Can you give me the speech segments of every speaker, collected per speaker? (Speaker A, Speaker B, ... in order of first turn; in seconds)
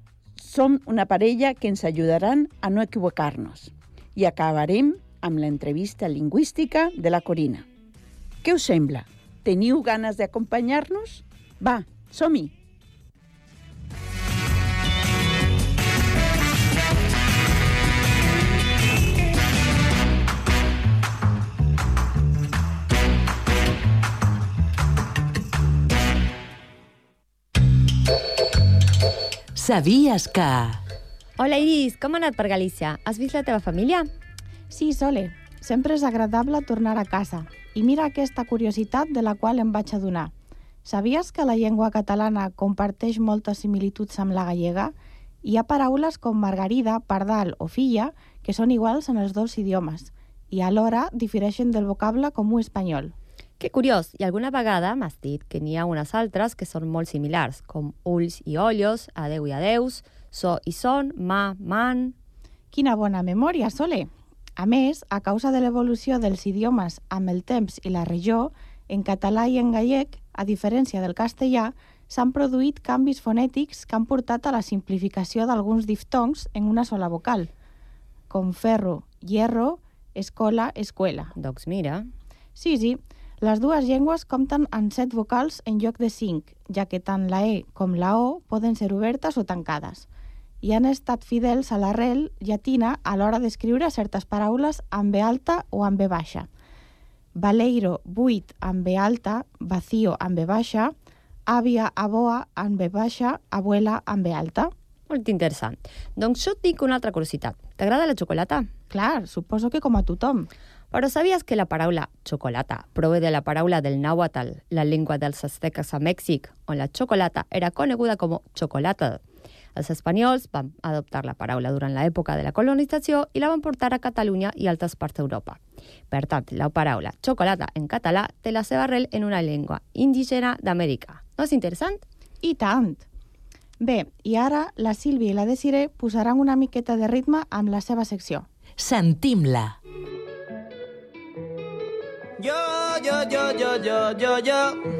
Speaker A: 0.4-7.7, 8.4-12.5
Speaker B: 29.5-30.8, 138.8-139.8
Speaker C: 31.4-34.1, 53.6-62.1, 81.3-82.1, 105.1-108.7, 110.9-119.2, 119.7-132.0
Speaker D: 34.7-40.3, 40.8-53.1, 62.7-77.5, 78.3-81.3, 82.5-90.1, 90.6-96.5, 97.3-100.9, 101.5-104.7, 108.9-110.5, 132.4-133.0, 133.8-138.4
Speaker E: 142.4-144.8